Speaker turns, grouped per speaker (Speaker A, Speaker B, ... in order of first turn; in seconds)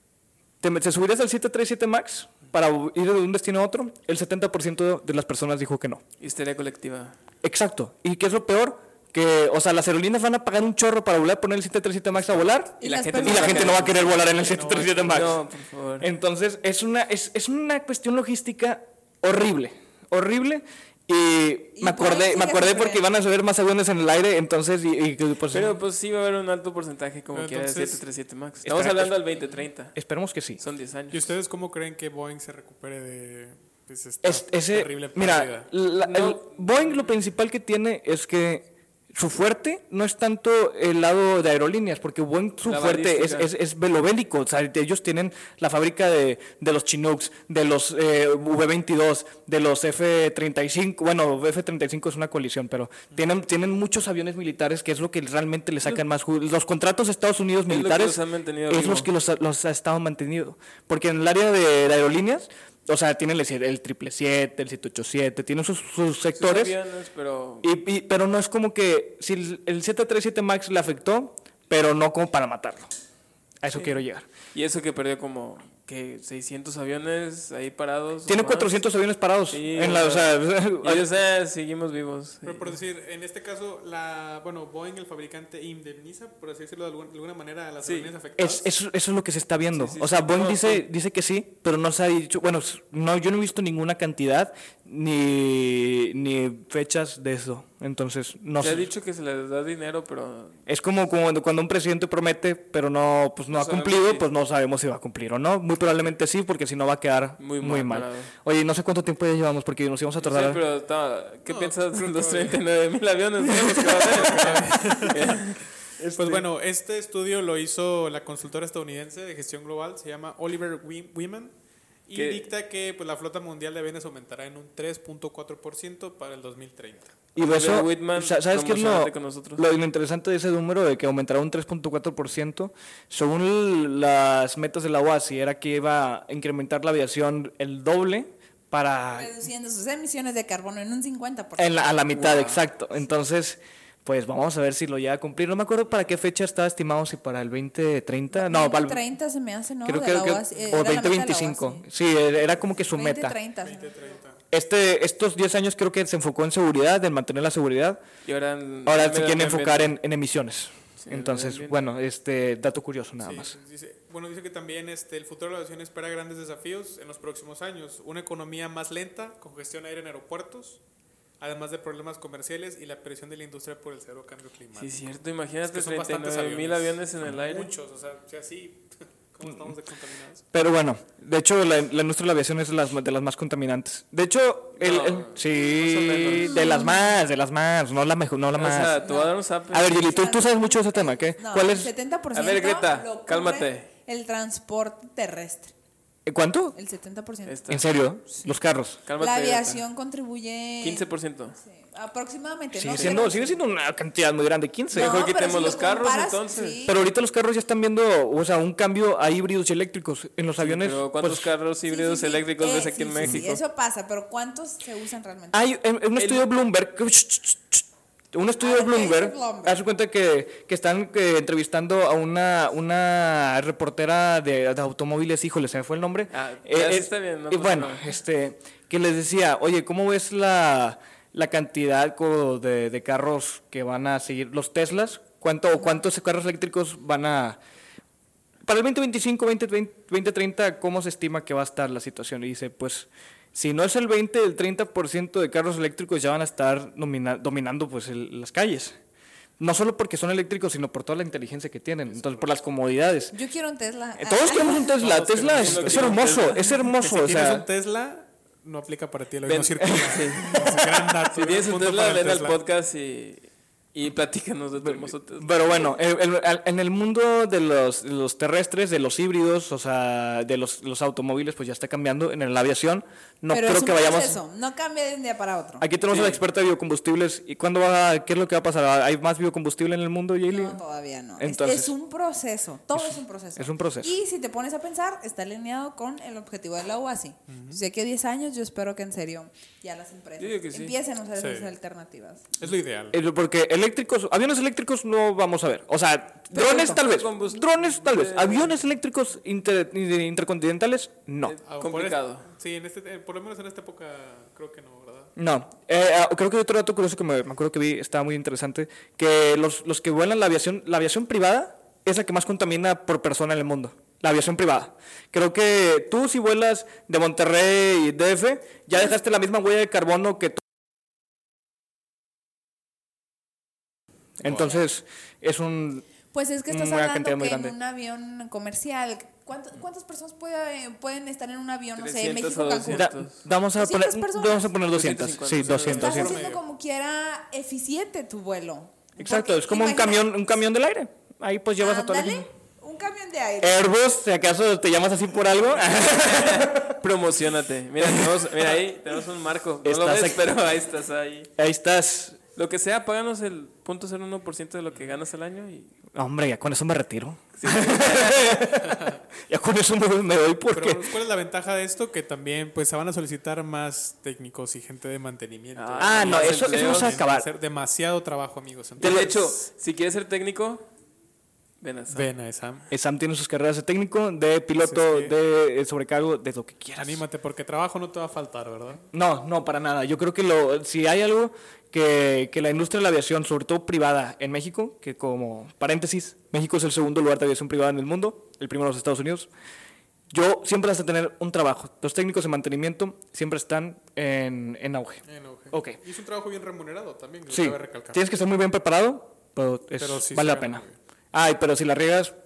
Speaker A: 0.6-6.0, 7.4-15.4, 16.0-25.8, 28.6-29.2, 29.9-30.6, 34.2-66.8, 67.6-72.9, 73.6-74.2, 78.3-81.1, 88.4-98.9, 100.7-110.6, 113.5-114.2, 116.0-116.5, 127.3-139.3, 141.6-149.0, 149.8-153.4, 154.5-158.0, 158.8-163.5, 180.5-189.1, 189.7-191.9, 196.2-196.8, 197.7-199.0, 202.7-205.3, 206.8-211.5, 215.5-237.6, 238.6-249.0, 249.6-253.3, 254.2-257.6, 259.8-260.8, 264.8-274.4, 275.8-280.8, 281.4-281.9, 282.9-284.1, 293.1-301.6, 305.4-320.6, 324.4-326.1, 326.7-327.7, 332.9-336.4, 339.2-342.5, 343.6-347.0, 348.0-348.7, 349.8-350.5, 351.6-352.4, 356.1-361.1, 366.0-367.5, 369.0-369.3, 372.9-377.2, 379.1-389.5, 390.3-396.0, 397.5-402.3
Speaker B: 6.2-7.2, 12.8-16.1, 25.5-29.9, 30.6-31.3, 36.0-37.1, 42.6-43.5, 57.7-59.1, 66.3-67.7, 73.7-74.0, 74.5-78.8, 79.5-82.8, 87.8-88.1, 89.7-90.8, 98.6-100.6, 103.5-104.2, 107.4-108.3, 110.2-115.6, 122.1-122.5, 127.4-129.6, 142.2-142.5, 158.2-159.9, 161.0-161.8, 174.7-177.7, 184.8-186.6, 188.5-190.3, 192.3-193.9, 197.4-198.0, 199.0-199.8, 200.8-201.6, 202.9-203.2, 204.9-206.8, 210.6-213.6, 216.2-216.4, 226.3-228.1, 255.3-257.1, 259.4-265.9, 276.1-276.4, 290.4-290.9, 296.5-298.8, 301.4-302.4, 332.0-333.4, 334.9-336.0, 346.0-351.5, 352.6-355.9, 357.6-358.7, 365.7-367.2, 369.0-370.9, 371.8-372.3
Speaker C: 12.8-13.9, 21.7-23.0, 139.1-142.6, 148.3-151.8, 152.9-153.9, 186.5-187.1, 189.0-189.3, 189.9-195.7, 196.7-197.6, 199.2-201.1, 201.6-203.6, 204.9-207.0, 211.9-215.6, 218.6-219.8, 253.3-254.9, 273.5-275.9, 280.5-292.5, 296.5-297.0, 324.4-324.9, 326.3-333.1, 333.8-334.7, 335.9-340.5, 341.8-343.8
Speaker D: 13.7-15.4, 27.3-28.0, 31.1-35.7, 82.4-88.7, 111.5-112.6, 114.0-115.5, 116.2-121.5, 122.1-127.2, 153.6-154.4, 163.2-170.8, 171.4-175.1, 175.7-180.4, 252.1-252.5, 255.0-256.2, 257.1-262.6, 287.5-287.8, 291.4-291.7, 292.6-293.2, 301.7-305.3, 335.5-336.6, 358.9-359.2, 360.7-369.5, 372.1-372.9, 374.8-375.3, 377.0-379.0, 395.2-398.2, 400.0-401.0